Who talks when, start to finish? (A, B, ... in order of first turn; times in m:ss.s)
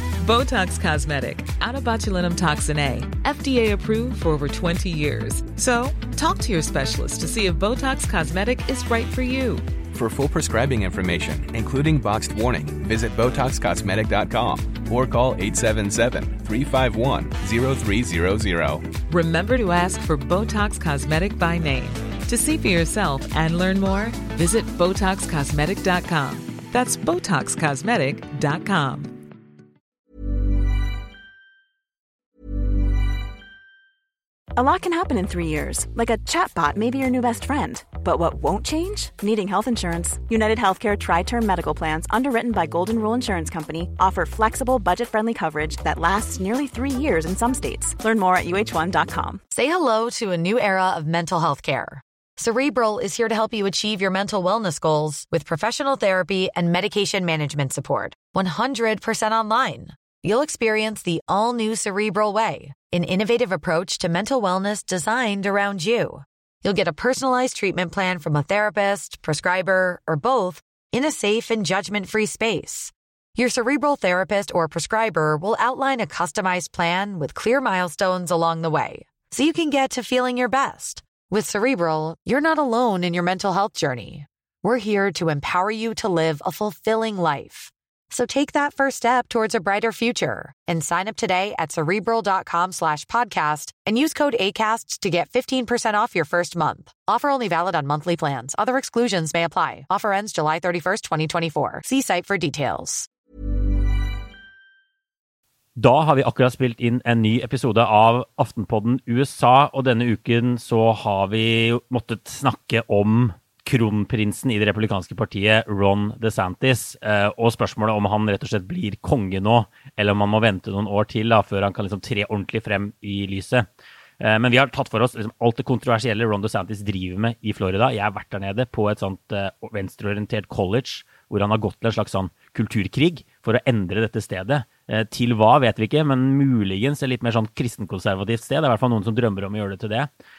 0:00.2-0:09.6 A
0:09.9-0:18.9 B
0:19.1-0:29.2 A
0:34.6-0:49.4 C
0:49.5-1:43.1 D
1:45.8-2:03.6 E
2:04.2-2:20.1 E